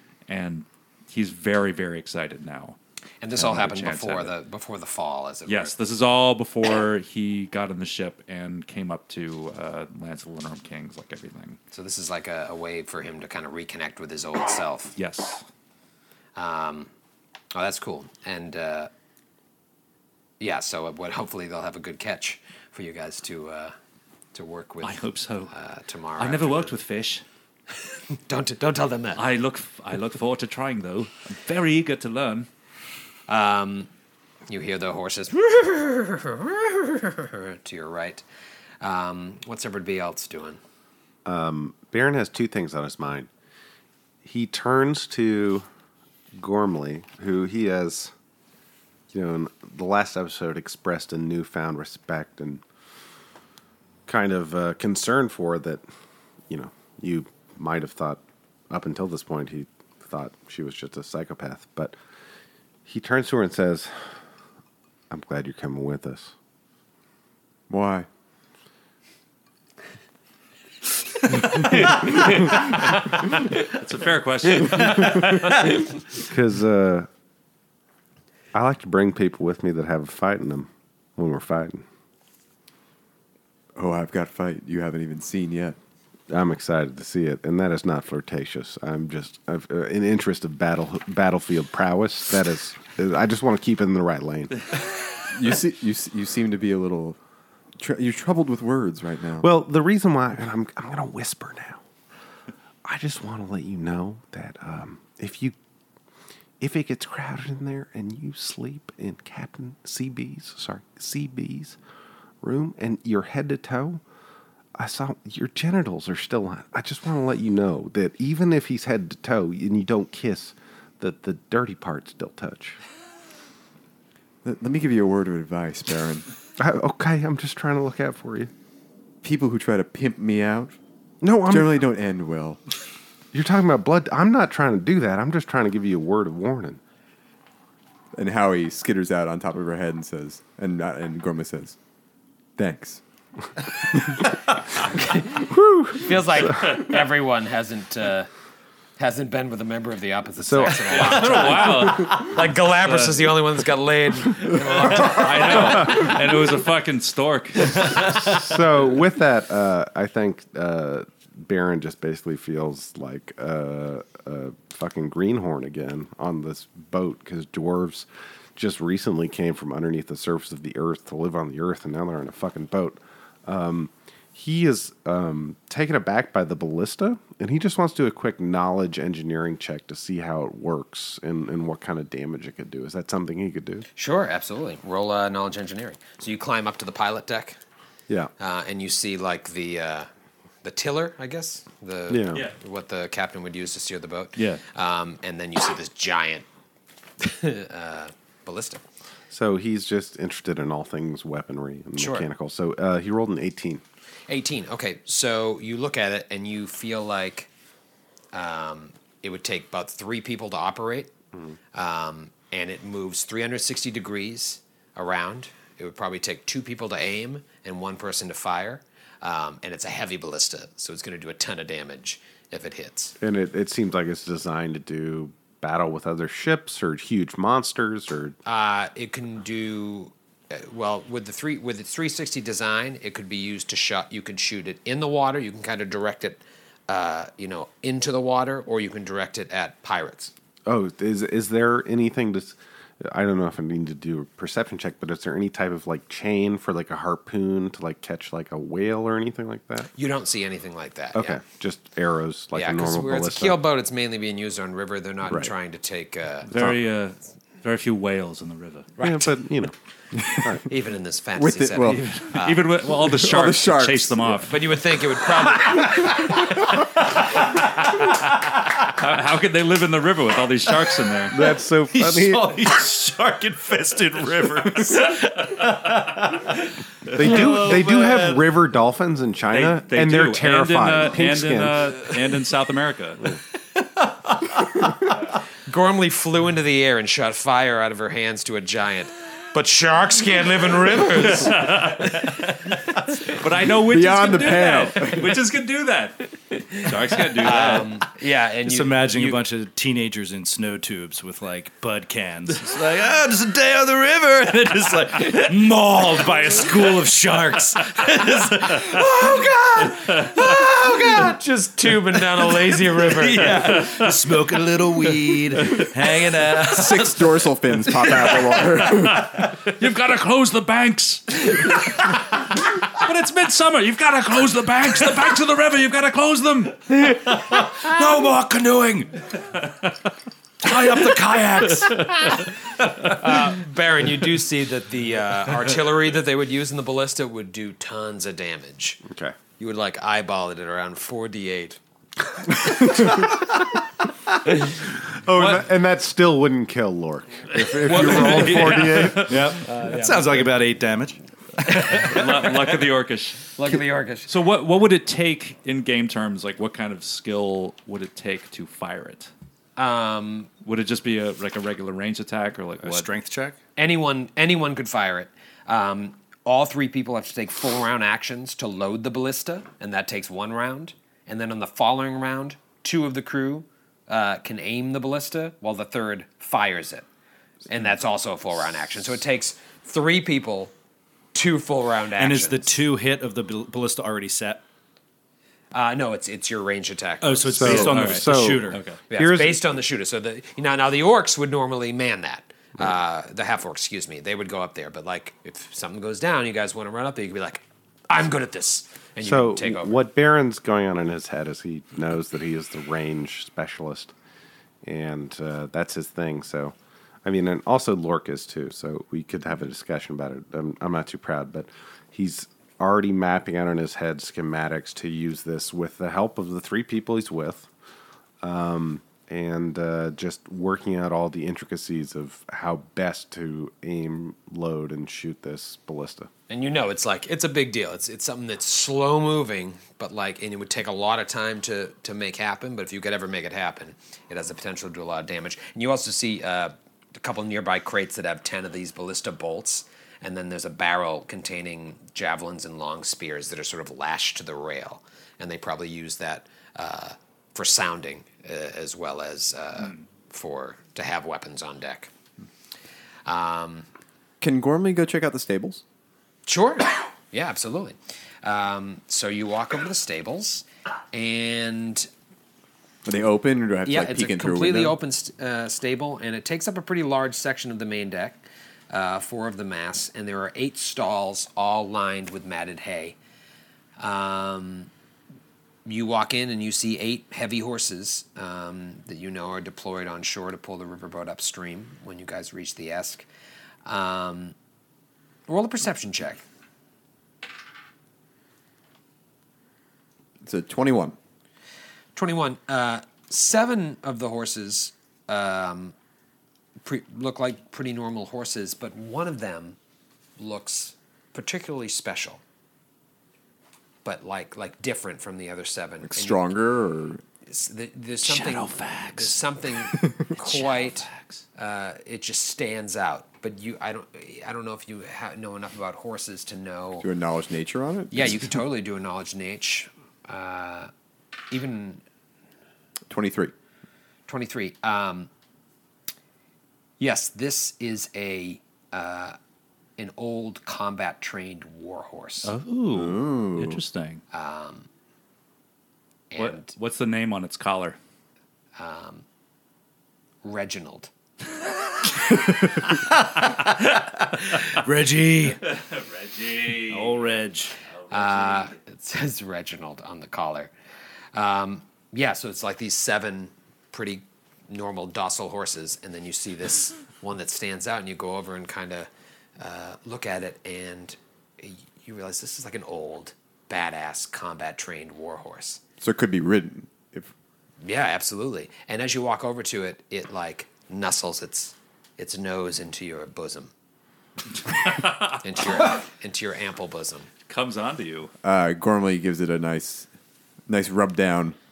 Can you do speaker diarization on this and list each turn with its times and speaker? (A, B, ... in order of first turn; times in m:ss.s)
0:00.3-0:02.8 A
0:03.2-0:05.7 B
0:03.4-0:04.3 A
0:05.5-0:11.6 A
0:11.7-0:15.0 B
0:15.0-0:15.4 A
0:16.4-0:16.9 B
0:17.5-0:18.9 B
0:20.4-0:23.7 B
0:24.3-0:26.8 B
0:24.8-0:25.5 A
0:26.2-0:27.2 A
0:28.2-0:29.2 B
0:29.2-0:32.5 A
0:33.3-0:33.9 B
0:34.5-0:38.2 B
0:38.8-0:40.6 B
0:41.2-0:43.3 C
0:44.2-0:45.6 C
0:46.4-0:48.1 C
0:49.1-0:52.6 C
0:54.1-0:55.8 C
0:56.5-1:01.9 C
1:02.8-1:03.9 C
1:05.1-1:06.3 C
1:07.7-1:08.1 D
1:11.6-1:12.4 C
1:13.5-1:15.5 A
1:15.1-1:15.6 C
1:16.2-1:17.1 C
1:18.5-1:21.8 C
1:23.7-1:25.8 D
1:26.3-1:34.7 C
1:35.3-1:37.2 D
1:37.8-1:39.5 D
1:39.4-1:41.8 C
1:42.8-1:45.5 C
1:46.6-1:51.8 C
1:52.4-1:54.0 C
1:54.8-2:02.8 C
2:04.4-2:06.2 D
2:06.6-2:08.5 C
2:09.2-2:10.7 D
2:11.2-2:11.8 C
2:11.4-2:12.6 D
2:13.3-2:16.8 C
2:18.1-2:21.8 D
2:22.6-2:23.0 D
2:25.0-2:25.2 B
2:25.3-2:26.8 C
2:26.0-2:28.3 B
2:29.0-2:36.1 B
2:30.4-2:32.1 C
2:30.9-2:33.3 A
2:34.8-2:38.3 A
2:37.9-3:03.8 C
3:04.0-3:07.6 B
3:08.4-3:10.1 B
3:10.6-3:16.4 B
3:12.1-3:12.4 C
3:14.4-3:14.6 A
3:17.2-3:18.8 B
3:19.3-3:23.8 C
3:22.0-3:22.3 B
3:24.3-3:27.5 B
3:28.3-3:31.1 B
3:31.7-3:43.1 B
3:43.2-3:48.4 C
3:48.4-4:00.3 B
4:00.6-4:09.9 C
4:09.9-4:11.4 B
4:11.1-4:13.6 C
4:12.5-4:16.5 B
4:16.5-4:18.9 A
4:19.0-4:19.3 B
4:19.0-4:19.7 C
4:20.3-4:20.7 C
4:20.7-4:22.7 B
4:21.4-4:22.3 D
4:21.8-4:24.6 A
4:23.0-4:24.5 D
4:24.5-4:26.4 B
4:28.9-4:31.4 A
4:31.3-4:32.6 C
4:31.9-4:38.5 E
4:37.1-4:37.5 A
4:37.1-4:41.9 C
4:39.5-4:43.4 A
4:45.7-4:51.6 B
4:51.1-4:52.6 A
4:53.2-4:57.9 A
4:53.8-4:55.4 D
4:57.4-4:59.4 B
4:58.6-5:11.3 E
5:09.4-5:13.8 B
5:10.0-5:10.3 A
5:13.1-5:17.1 E
5:13.4-5:14.2 A
5:15.1-5:16.7 A
5:16.7-5:19.3 D
5:18.2-5:26.8 A
5:26.9-5:29.1 E
5:30.6-5:32.4 E
5:31.9-5:32.3 A
5:33.1-5:39.0 B
5:39.0-5:39.3 C
5:39.6-5:41.8 B
5:42.6-5:43.3 C
5:44.6-5:49.4 C
5:47.6-5:49.2 D
5:47.9-5:49.6 A
5:48.0-5:52.7 E
5:48.0-5:48.6 B
5:49.6-5:50.4 B
5:51.9-5:53.5 A
5:53.6-5:54.3 B
5:54.3-5:59.3 A
5:59.8-6:00.5 B
6:00.6-6:03.1 A
6:02.8-6:03.6 E
6:03.8-6:17.1 B
6:17.7-6:20.7 B
6:21.3-6:22.8 B
6:22.2-6:24.6 E
6:25.7-6:27.9 B
6:27.2-6:28.8 E
6:27.5-6:29.8 C
6:27.7-6:29.0 A
6:29.1-6:40.0 B
6:39.2-6:44.1 C
6:44.8-6:57.7 C
6:58.4-7:06.3 C
7:06.5-7:32.1 B
7:33.2-7:33.9 B
7:34.4-7:35.8 D
7:36.5-7:42.1 B
7:43.0-7:45.0 D
7:43.8-7:53.2 B
7:54.0-7:54.9 B
7:55.8-8:03.3 B
8:03.8-8:04.5 B
8:05.5-8:06.4 B
8:10.4-8:11.2 D
8:12.1-8:15.9 B
8:16.8-8:19.8 B
8:20.4-8:22.4 B
8:24.0-8:26.5 B
8:26.0-8:27.2 D
8:27.4-8:37.1 B
8:28.2-8:29.4 A
8:30.4-8:31.4 A
8:37.0-8:38.5 D
8:38.1-8:40.9 B
8:41.5-8:42.0 B
8:43.1-8:43.5 D
8:44.3-8:45.3 B
8:47.0-8:49.4 B
8:50.0-8:52.5 B
8:52.4-8:54.2 A
8:52.9-8:53.8 D
8:54.3-8:54.9 B
8:56.3-8:56.7 B
8:56.4-8:58.0 A
8:58.8-8:59.2 B
9:00.4-9:01.1 B
9:03.2-9:05.6 E
9:05.6-9:08.7 A
9:06.9-9:07.7 E
9:08.1-9:10.7 B
9:11.3-9:19.1 B
9:19.6-9:25.8 B
9:26.0-9:27.3 D
9:27.8-9:33.7 B
9:34.7-9:35.4 A
9:35.4-9:37.3 B
9:37.5-9:38.3 A
9:38.4-9:40.1 D
9:40.7-9:41.6 D